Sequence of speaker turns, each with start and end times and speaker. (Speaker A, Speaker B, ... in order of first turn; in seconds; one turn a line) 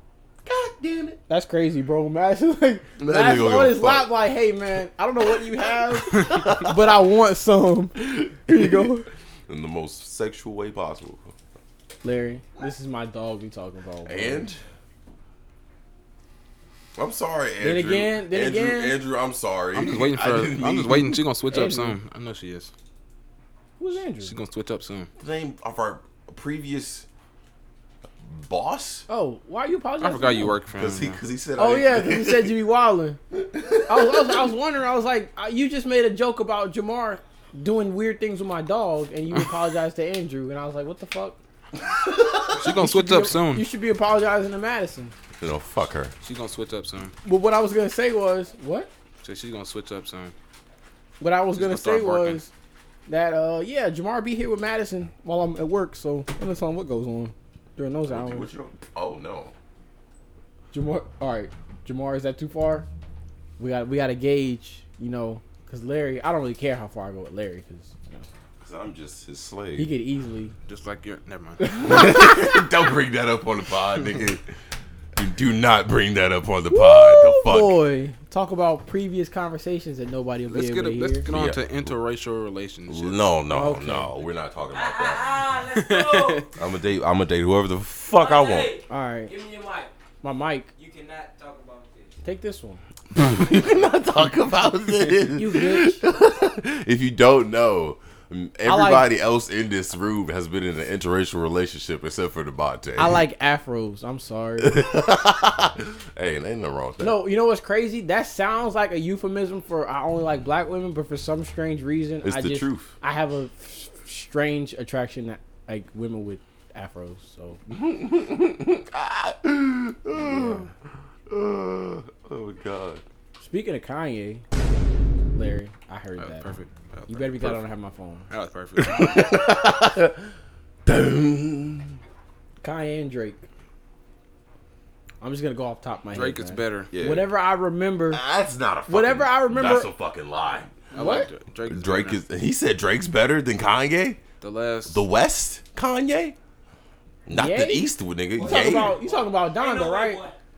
Speaker A: 0.5-1.2
Speaker B: 1.3-9.1
Speaker A: 3.0-4.1
Speaker A: 5.3-6.8
Speaker C: 6.1-6.4
Speaker A: 8.0-11.3
Speaker B: 12.0-14.5
Speaker A: 14.1-14.6
Speaker A: 17.0-21.2
Speaker B: 17.6-19.0
Speaker C: 19.7-22.7
Speaker B: 21.5-22.0
Speaker B: 23.8-24.3
Speaker C: 24.2-25.1
Speaker A: 25.2-27.1
Speaker A: 28.2-29.1
Speaker B: 29.1-30.5
Speaker C: 30.0-31.2
Speaker A: 30.7-32.5
Speaker B: 31.6-33.2
Speaker A: 33.3-34.5
Speaker B: 33.9-41.4
Speaker A: 42.2-42.5
Speaker B: 42.4-45.1
Speaker C: 42.5-43.6
Speaker A: 45.4-46.1
Speaker C: 46.2-47.1
Speaker B: 47.2-48.9
Speaker C: 49.2-50.4
Speaker B: 51.2-52.5
Speaker C: 51.6-52.4
Speaker B: 53.1-58.5
Speaker A: 58.1-59.5
Speaker B: 60.7-62.9
Speaker B: 63.6-68.3
Speaker A: 68.6-69.9
Speaker B: 69.8-70.6
Speaker C: 70.7-71.6
Speaker B: 71.6-72.6
Speaker A: 71.7-74.5
Speaker A: 75.2-77.8
Speaker B: 76.7-81.3
Speaker C: 80.5-83.2
Speaker A: 81.3-81.9
Speaker A: 82.9-85.5
Speaker B: 83.5-84.1
Speaker D: 84.7-86.5
Speaker C: 85.7-86.5
Speaker A: 86.6-88.8
Speaker D: 88.1-89.9
Speaker B: 88.9-89.4
Speaker B: 90.2-90.7
Speaker D: 90.8-92.2
Speaker B: 92.2-92.8
Speaker A: 93.1-103.3
Speaker B: 95.3-96.0
Speaker B: 98.7-99.1
Speaker B: 103.0-104.9
Speaker A: 104.6-107.2
Speaker B: 107.0-117.6
Speaker A: 112.2-113.0
Speaker A: 117.7-120.7
Speaker B: 120.2-120.7
Speaker A: 121.3-123.0
Speaker B: 123.4-124.4
Speaker B: 125.3-126.5
Speaker C: 126.2-127.6
Speaker B: 127.1-128.3
Speaker C: 128.3-129.2
Speaker A: 128.8-130.3
Speaker A: 130.8-132.0
Speaker B: 132.6-133.5
Speaker B: 135.2-138.2
Speaker C: 136.1-136.9
Speaker A: 136.9-137.3
Speaker A: 138.1-144.2
Speaker B: 138.9-139.9
Speaker C: 140.9-142.2
Speaker B: 140.9-141.3
Speaker C: 144.4-145.0
Speaker A: 144.9-146.4
Speaker A: 147.3-149.0
Speaker B: 147.3-150.3
Speaker D: 148.4-150.4